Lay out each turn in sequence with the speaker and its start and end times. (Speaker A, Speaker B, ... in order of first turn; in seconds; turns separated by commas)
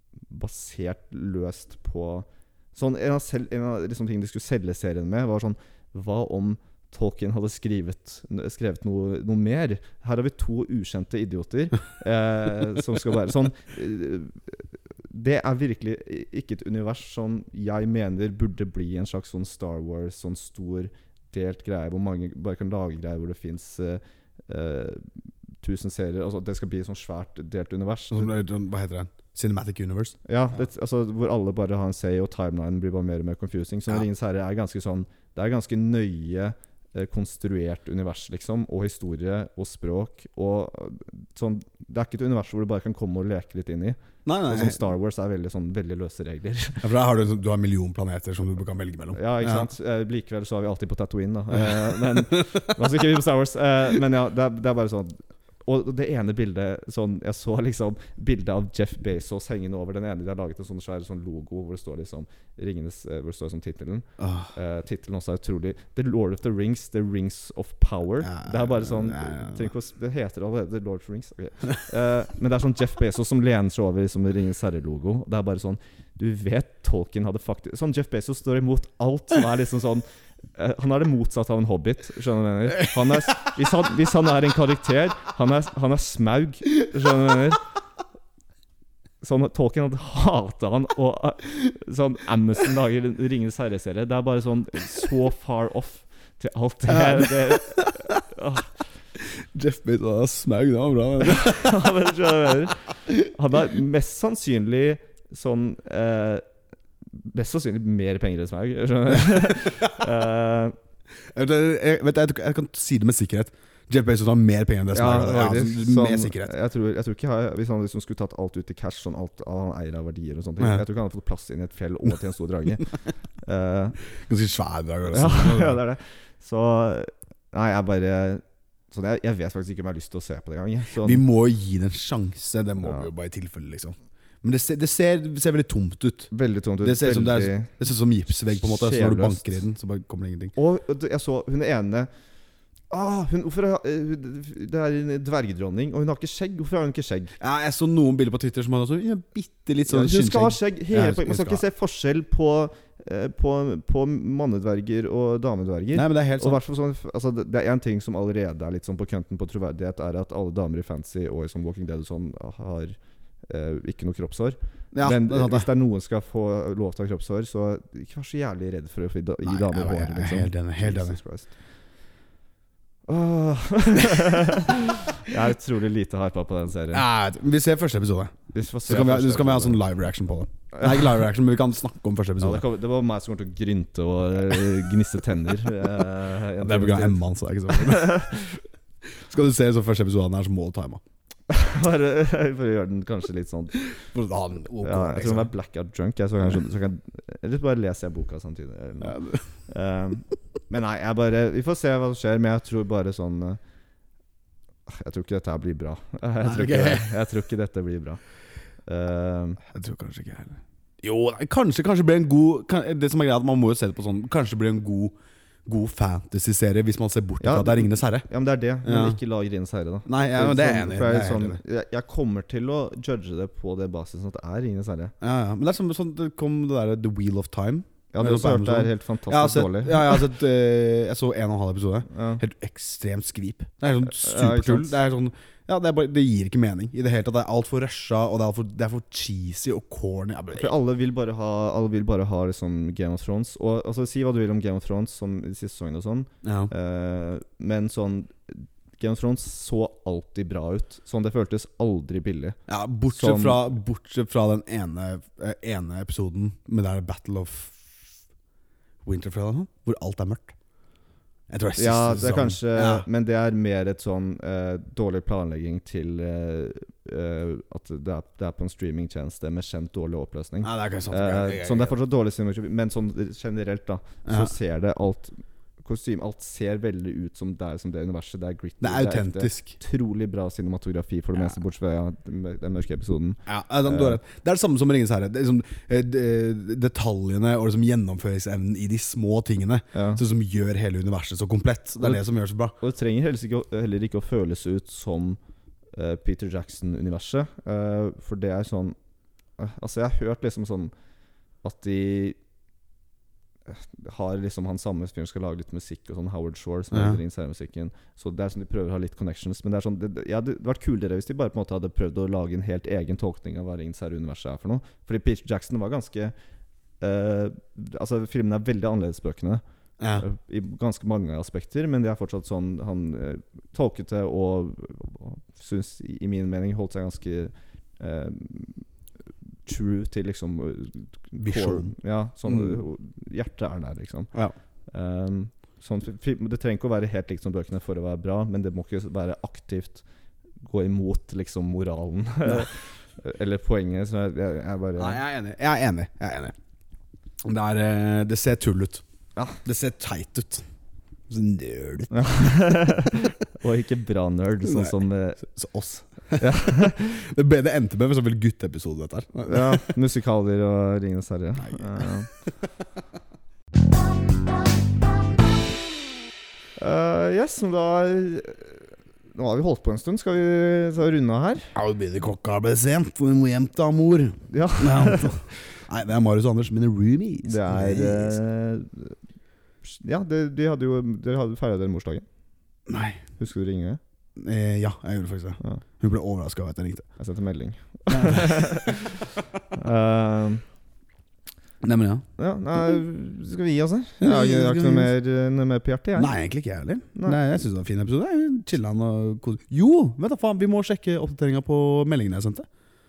Speaker A: 0.3-25.1, Speaker A: 25.6-28.3, Speaker B: 28.1-30.2, Speaker A: 30.2-46.8, Speaker B: 44.2-44.8, Speaker B: 46.8-49.7, Speaker A: 49.1-87.6, Speaker B: 51.5-52.0, Speaker B: 64.2-64.5, Speaker B: 68.2-69.7, Speaker A: 89.2-98.7, Speaker B: 96.9-98.2, Speaker B: 99.2-101.9, Speaker A: 101.2-106.4, Speaker A: 107.2-110.7, Speaker B: 111.3-116.5, Speaker A: 114.9-124.0, Speaker B: 120.6-120.8, Speaker B: 124.3-125.8, Speaker A: 125.1-131.2, Speaker B: 131.0-136.3, Speaker A: 132.8-133.1, Speaker A: 136.3-137.7, Speaker B: 136.8-140.5, Speaker A: 138.5-139.6, Speaker A: 140.5-142.1, Speaker A: 142.9-147.3, Speaker B: 147.4-151.6, Speaker A: 149.9-171.5, Speaker B: 155.9-156.6, Speaker B: 164.9-165.7, Speaker B: 169.4-171.2, Speaker A: 173.1-177.0, Speaker B: 176.9-178.3, Speaker A: 178.5-179.8, Speaker B: 178.8-182.6, Speaker A: 180.8-181.1, Speaker A: 182.4-188.6, Speaker B: 186.6-188.2, Speaker B: 189.0-191.0, Speaker A: 191.5-193.9, Speaker B: 194.0-195.5, Speaker A: 194.8-203.6, Speaker B: 199.0-199.5, Speaker A: 204.9-208.2, Speaker B: 206.4-207.1, Speaker A: 208.8-209.6, Speaker B: 209.6-215.1, Speaker B: 215.7-218.2, Speaker A: 217.4-225.1, Speaker B: 218.8-219.2, Speaker B: 220.1-221.6, Speaker B: 225.2-240.7, Speaker A: 228.1-230.2, Speaker A: 232.1-232.4, Speaker A: 234.0-235.0, Speaker A: 240.5-252.6, Speaker B: 246.4-246.7, Speaker B: 252.7-258.0, Speaker A: 253.1-253.7, Speaker B: 259.0-260.5, Speaker B: 261.5-263.1, Speaker A: 261.8-284.2, Speaker B: 270.6-271.9, Speaker B: 274.2-274.5, Speaker B: 278.8-279.7, Speaker B: 283.4-292.7, Speaker A: 289.9-290.2, Speaker A: 292.8-295.4, Speaker A: 295.9-298.9, Speaker A: 299.6-300.9, Speaker A: 301.6-302.4, Speaker A: 303.7-316.3, Speaker B: 306.9-307.2, Speaker A: 317.0-319.6, Speaker A: 320.2-328.9, Speaker A: 329.6-334.3, Speaker B: 331.4-331.9, Speaker B: 332.4-332.8, Speaker A: 334.9-340.0, Speaker A: 340.6-345.2, Speaker B: 345.0-346.5, Speaker B: 347.4-349.0, Speaker B: 349.6-350.6, Speaker B: 351.3-352.5, Speaker A: 352.1-355.5, Speaker B: 354.6-359.9, Speaker A: 356.4-357.2, Speaker A: 359.5-362.3, Speaker B: 361.6-362.5, Speaker A: 366.8-371.7, Speaker B: 371.7-378.4, Speaker A: 374.5-375.4, Speaker A: 377.4-379.1, Speaker A: 379.8-382.2, Speaker B: 382.9-383.2, Speaker A: 383.4-384.0, Speaker B: 384.4-387.0, Speaker A: 387.2-389.2, Speaker B: 388.1-388.9, Speaker A: 389.8-390.6, Speaker B: 391.8-392.2, Speaker A: 392.4-396.3, Speaker B: 394.2-395.1, Speaker B: 396.1-402.6